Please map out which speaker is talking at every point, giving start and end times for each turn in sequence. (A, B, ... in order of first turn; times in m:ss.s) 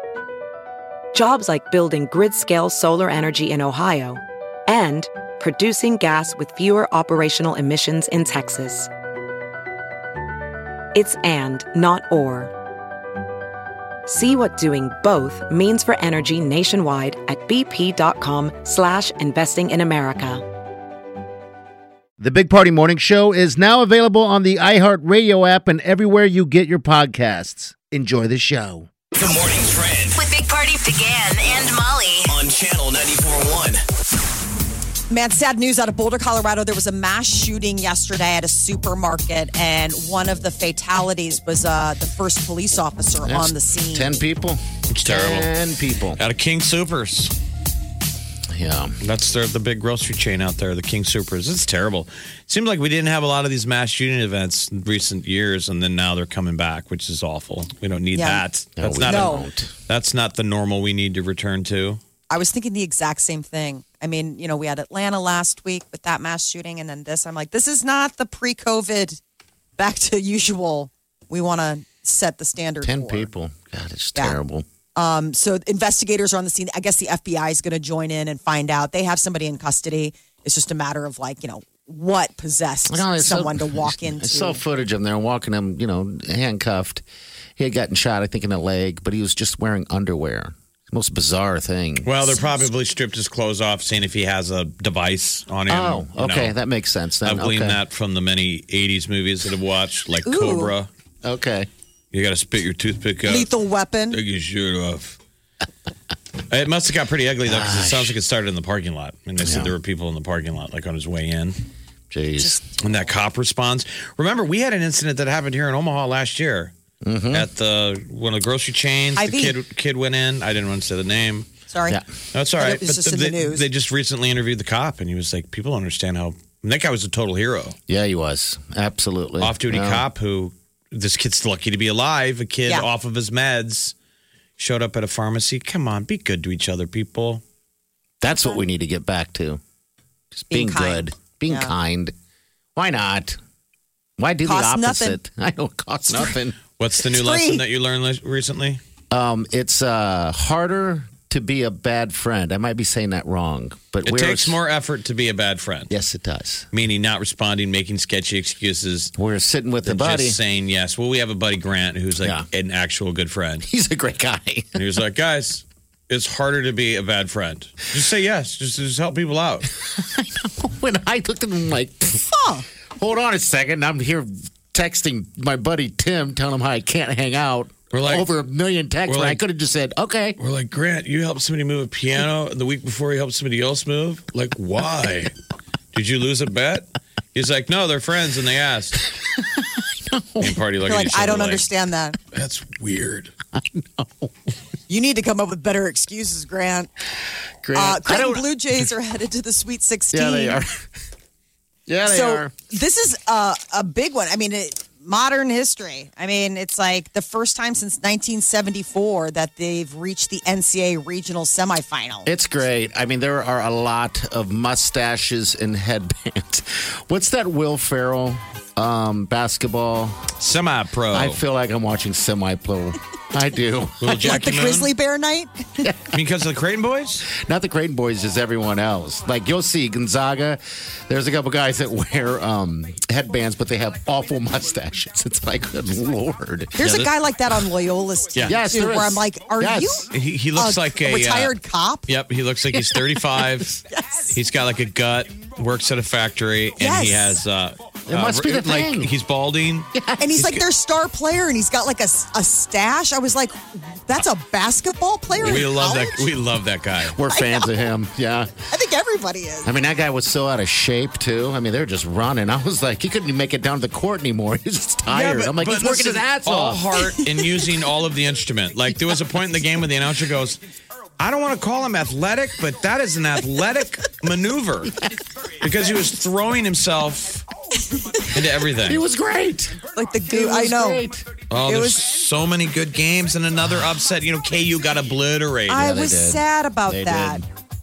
0:01.1-0:08.9 A
0:10.9-0:12.5 A
0:14.1-0:20.5 A
0:22.2-0:28.9 B
0:29.1-0:30.2 C
0:30.2-0:32.3 D
0:32.3-0:33.8 C
0:35.1-0:44.2 E
0:43.2-0:46.2 B
0:44.9-0:45.5 F
0:46.2-0:47.3 F
0:48.5-0:49.0 B
0:49.0-1:02.0 F
0:58.1-0:58.4 E
0:58.8-0:59.7 B
0:59.1-0:59.4 E
1:02.3-1:09.2 E
1:09.8-1:13.3 E
1:12.8-1:14.6 B
1:15.0-1:24.6 E
1:22.9-1:27.0 B
1:27.6-1:32.3 B
1:32.0-1:36.5 F
1:35.7-1:37.8 B
1:37.2-1:40.9 F
1:40.2-1:40.7 E
1:41.2-1:41.7 B
1:42.1-1:43.5 F
1:43.2-1:44.2 E
1:44.1-1:45.2 F
1:46.5-1:51.6 F
1:47.4-1:48.1 B
1:49.4-1:49.7 B
1:52.1-1:52.6 B
1:52.4-1:53.0 E
1:52.8-1:56.7 F
1:57.0-1:57.5 B
1:57.3-2:01.5 F
1:59.2-1:59.6 E
2:01.7-2:02.0 E
2:02.3-2:07.8 F
2:02.6-2:03.6 E
2:07.9-2:10.0 B
2:09.4-2:13.9 F
2:14.6-2:17.4 F
2:18.2-2:19.6 B
2:20.3-2:22.1 B
2:20.5-2:21.7 E
2:22.8-2:23.4 B
2:24.2-2:26.6 B
2:24.4-2:25.2 E
2:26.8-2:28.8 F
2:27.1-2:27.6 E
2:29.1-2:34.6 B
2:34.0-2:35.9 F
2:35.9-2:36.7 B
2:36.7-2:39.1 F
2:39.2-2:40.4 B
2:39.8-2:43.6 F
2:42.2-2:42.4 B
2:43.6-2:44.8 B
2:44.7-2:49.7 F
2:49.8-2:52.3 B
2:52.3-2:52.6 E
2:53.0-3:00.4 B
2:57.9-2:58.3 F
2:59.1-2:59.4 F
3:00.4-3:05.3 F
3:05.9-3:09.0 F
3:09.3-3:10.5 B
3:10.4-3:11.6 F
3:10.8-3:12.2 E
3:12.3-3:13.3 F
3:13.5-3:14.3 B
3:14.9-3:16.9 E
3:17.6-3:18.4 B
3:17.7-3:20.6 E
3:20.1-3:20.8 B
3:21.9-3:22.5 B
3:22.0-3:32.3 E
3:32.2-3:40.2 B
3:40.4-3:41.4 F
3:41.1-3:44.3 B
3:44.0-3:44.9 F
3:44.2-3:45.9 E
3:45.8-3:46.1 B
3:46.1-3:47.3 F
3:47.2-3:57.1 B
3:56.8-4:02.1 E
3:56.8-3:57.1 F
3:58.4-4:00.0 B
4:00.1-4:01.5 F
4:02.1-4:03.8 F
4:03.9-4:04.4 E
4:04.3-4:09.9 F
4:06.8-4:07.4 E
4:08.1-4:09.1 B
4:09.9-4:10.6 B
4:10.2-4:16.3 E
4:15.4-4:17.2 F
4:17.0-4:18.5 B
4:17.3-4:17.7 E
4:18.7-4:19.7 E
4:19.6-4:26.8 B
4:25.1-4:30.6 F
4:31.2-4:35.0 F
4:35.6-4:37.4 F
4:38.3-4:39.0 F
4:38.8-4:41.3 B
4:39.9-4:41.1 E
4:41.5-4:45.8 F
4:41.6-4:42.0 E
4:45.7-4:47.4 E
4:45.7-4:47.4 B